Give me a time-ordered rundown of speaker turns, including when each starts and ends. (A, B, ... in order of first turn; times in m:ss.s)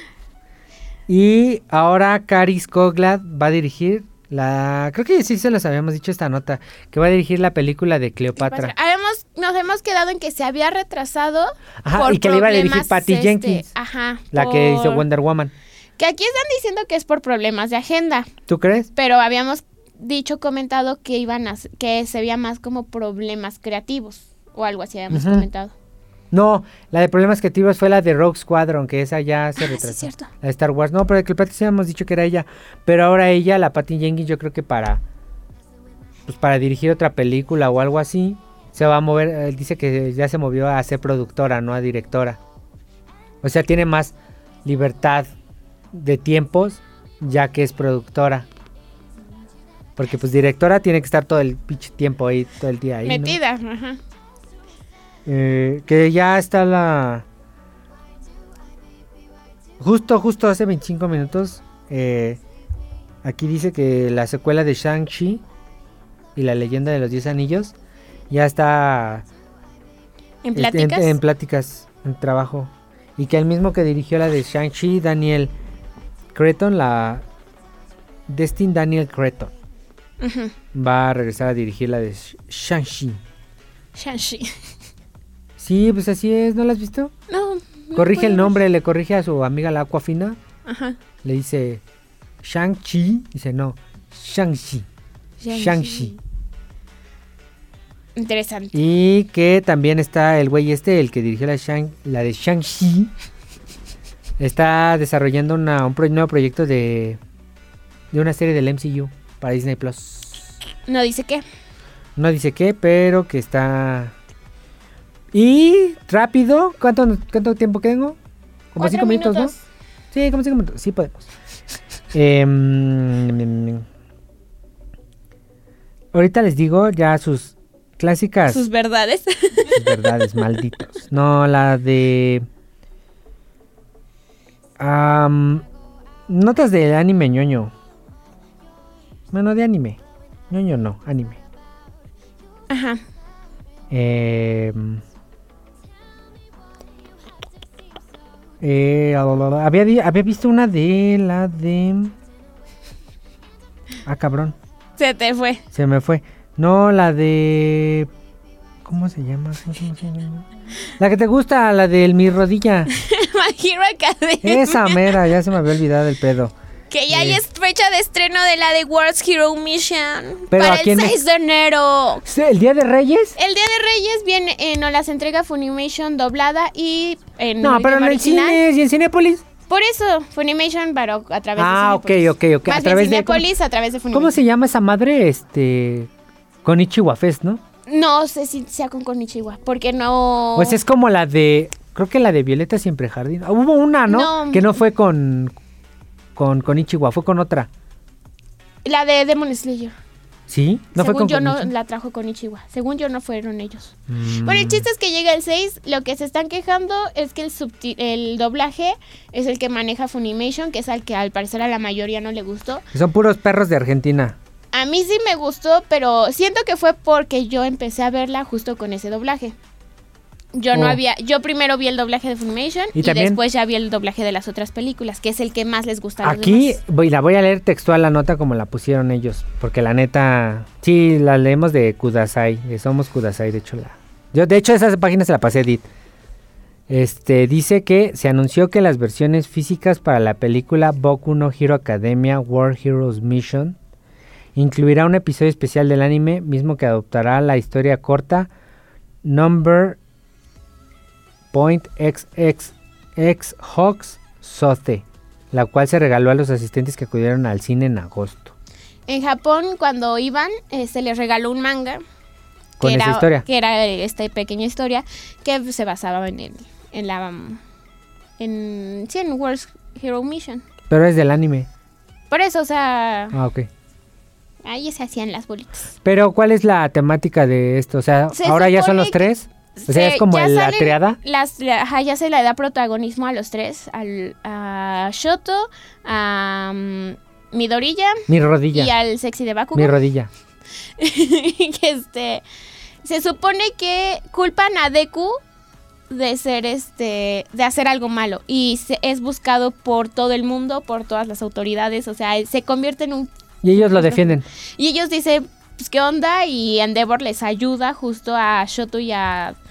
0:01.1-0:08.7 A
0:08.4-0:15.0 B
0:11.8-0:13.7 A
0:14.3-0:15.5 A
0:16.0-0:18.3 B
0:18.5-0:18.9 A
0:18.9-0:25.7 B
0:25.1-0:25.4 A
0:26.3-0:35.0 A
0:29.6-0:30.3 B
0:36.2-0:42.4 A
0:43.4-0:45.3 A
0:45.9-0:48.5 A
0:50.0-0:53.4 A
0:53.0-0:54.0 B
0:55.2-0:57.2 A
0:59.8-1:02.4 A
1:03.2-1:05.4 A
1:06.4-1:07.7 A
1:08.3-1:09.3 A
1:10.4-1:11.2 B
1:10.5-1:15.5 A
1:16.3-1:17.2 A
1:18.3-1:19.5 A
1:20.2-1:20.5 B
1:20.7-1:23.2 A
1:24.0-1:24.7 B
1:25.6-1:27.1 A
1:27.3-1:28.6 B
1:27.9-1:30.4 A
1:30.6-1:31.0 B
1:31.2-1:31.8 A
1:32.4-1:34.8 A
1:35.4-1:36.2 B
1:35.5-1:36.1 A
1:38.2-1:38.7 B
1:38.7-1:43.1 A
1:44.4-1:47.2 A
1:48.1-1:50.5 A
1:50.9-1:51.4 B
1:52.2-1:54.1 A
1:55.3-1:58.2 A
1:58.7-1:59.5 A
1:58.8-1:59.6 B
2:00.1-2:01.3 A
2:02.1-2:03.8 A
2:06.1-2:08.7 A
2:08.5-2:10.5 B
2:09.7-2:12.4 A
2:14.8-2:15.6 A
2:16.3-2:17.7 A
2:19.3-2:20.0 A
2:20.5-2:21.4 A
2:22.7-2:23.0 B
2:23.9-2:25.0 A
2:28.6-2:32.1 A
2:34.0-2:34.6 A
2:35.0-2:35.6 B
2:35.7-2:38.1 A
2:38.8-2:42.9 A
2:42.9-2:45.2 B
2:44.4-2:46.5 A
2:46.9-2:52.2 B
2:47.1-2:47.4 A
2:50.5-2:51.2 A
2:52.2-2:53.4 A
2:53.4-2:58.6 B
2:57.6-2:59.4 A
2:59.7-3:04.4 B
3:01.6-3:03.5 A
3:04.1-3:06.1 A
3:06.6-3:07.6 A
3:07.9-3:10.8 B
3:10.6-3:15.5 A
3:14.1-3:14.8 B
3:16.4-3:17.7 A
3:18.8-3:19.9 B
3:20.5-3:21.7 A
3:21.0-3:32.8 B
3:24.1-3:24.8 A
3:32.9-3:34.4 A
3:34.7-3:39.6 B
3:40.5-3:46.8 B
3:40.7-3:41.0 A
3:42.9-3:43.4 A
3:46.2-3:55.9 A
3:56.9-4:03.8 A
4:04.5-4:08.5 A
4:09.2-4:10.0 A
4:11.5-4:18.5 A
4:19.1-4:22.0 B
4:22.8-4:23.4 A
4:22.8-4:27.6 B
4:28.4-4:30.6 B
4:30.9-4:31.7 A
4:32.3-4:33.4 B
4:33.3-4:33.7 A
4:34.6-4:35.9 B
4:36.0-4:41.2 A
4:38.3-4:50.0 B
4:48.3-4:48.9 A
4:49.7-4:50.3 A
4:51.0-4:52.4 B
4:53.0-4:55.4 B
4:56.1-5:09.6 B
5:03.6-5:04.4 A